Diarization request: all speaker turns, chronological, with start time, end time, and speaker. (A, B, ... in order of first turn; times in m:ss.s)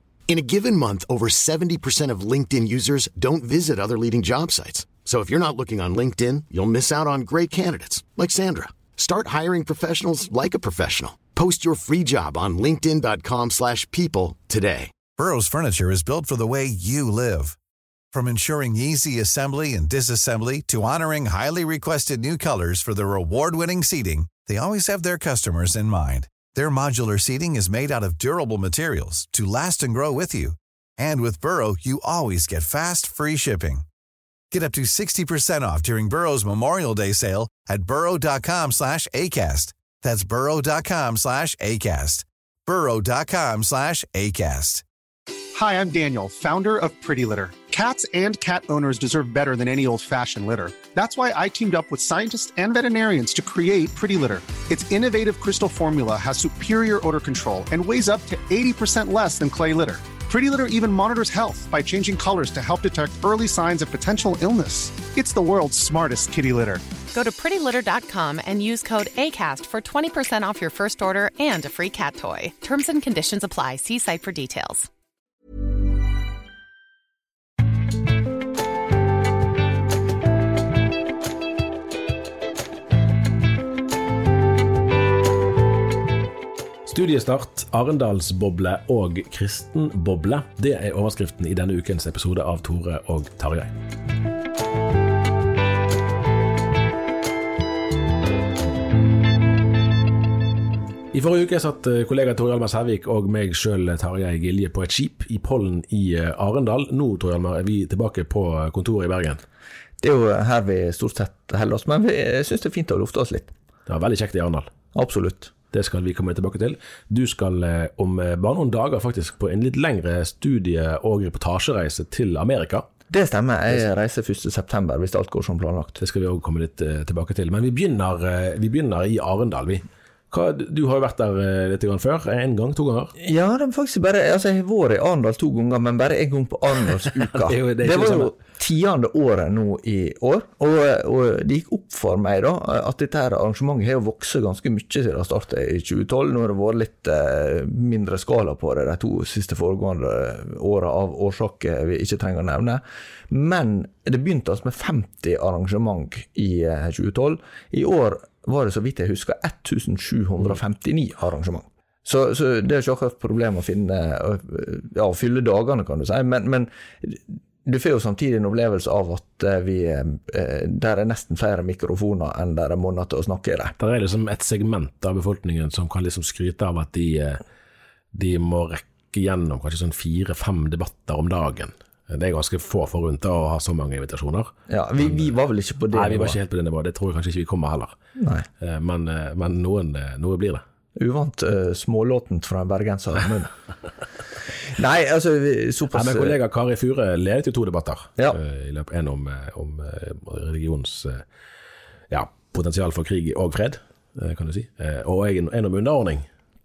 0:00.3-0:14.9 A
0:15.2-0:17.6 B
0:18.1-0:33.8 B
0:34.5-0:44.8 B
0:45.5-1:06.8 C
1:07.1-1:14.9 D
1:26.8-1:33.7 E
1:41.1-1:49.4 E
1:50.0-1:53.5 F
1:53.9-1:54.7 E
1:54.9-1:55.5 F
1:55.7-2:02.9 E
2:03.1-2:06.0 F
2:06.0-2:13.1 E
2:13.2-2:53.7 F
2:17.2-2:18.3 E
2:53.8-2:57.4 E
2:58.1-3:05.3 E
3:04.7-3:06.4 F
3:05.9-3:07.9 E
3:08.2-3:08.4 F
3:08.6-3:10.6 E
3:11.0-3:13.5 F
3:14.7-3:16.3 F
3:15.9-3:21.2 E
3:22.1-3:26.2 E